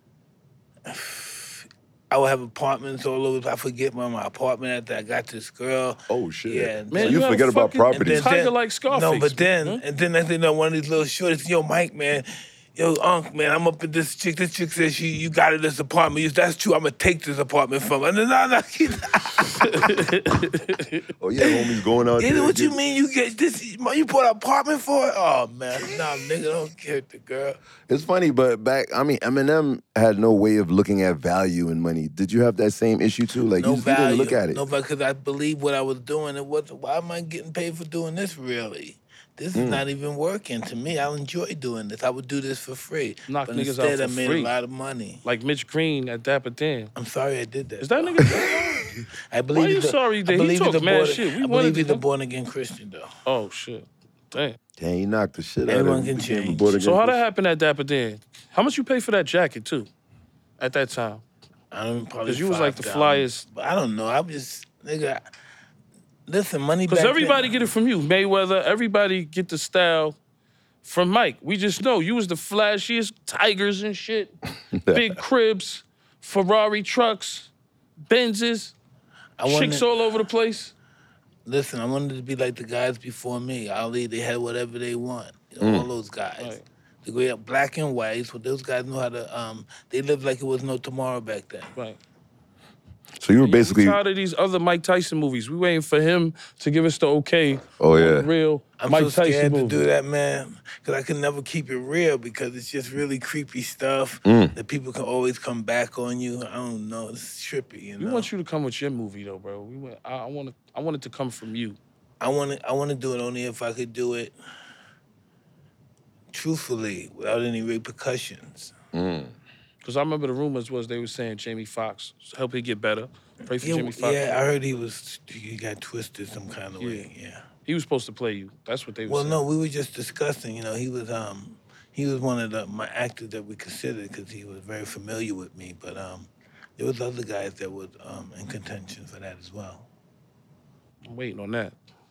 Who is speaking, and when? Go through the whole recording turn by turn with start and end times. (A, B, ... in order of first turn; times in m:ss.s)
0:00.9-0:07.4 A
0:06.1-0:08.3 B
0:06.9-0:09.8 C
0:07.9-0:20.0 A
0:19.6-0:21.0 C
0:21.2-0:22.8 B
0:21.4-0:27.6 A
0:27.9-0:34.6 B
0:33.6-0:45.2 A
0:39.5-0:39.8 B
0:43.3-0:44.5 C
0:45.2-0:46.9 C
0:46.9-0:48.6 A
0:47.8-0:48.9 C
0:49.3-0:53.1 A
0:49.5-0:52.0 C
0:53.2-0:54.6 C
0:54.8-0:57.2 B
0:55.7-0:56.7 A
0:56.8-0:59.9 C
1:00.6-1:01.2 C
1:01.7-1:05.2 A
1:02.2-1:03.4 C
1:06.3-1:07.5 A
1:06.9-1:10.2 C
1:10.8-1:14.3 C
1:14.7-1:15.2 B
1:14.9-1:17.5 C
1:18.1-1:18.7 C
1:19.4-1:19.9 A
1:19.4-1:20.7 C
1:21.4-1:31.7 A
1:25.6-1:25.9 B
1:26.4-1:26.6 C
1:33.2-1:34.0 B
1:33.4-1:39.8 C
1:37.8-1:38.3 B
1:38.8-1:48.3 A
1:44.2-1:44.5 B
1:48.0-1:51.8 C
1:52.2-1:54.3 A
1:56.3-1:58.7 A
1:58.9-1:59.3 B
1:59.8-2:04.4 C
2:03.6-2:07.4 A
2:06.8-2:07.1 C
2:07.6-2:09.4 C
2:09.1-2:19.9 A
2:21.0-2:21.7 C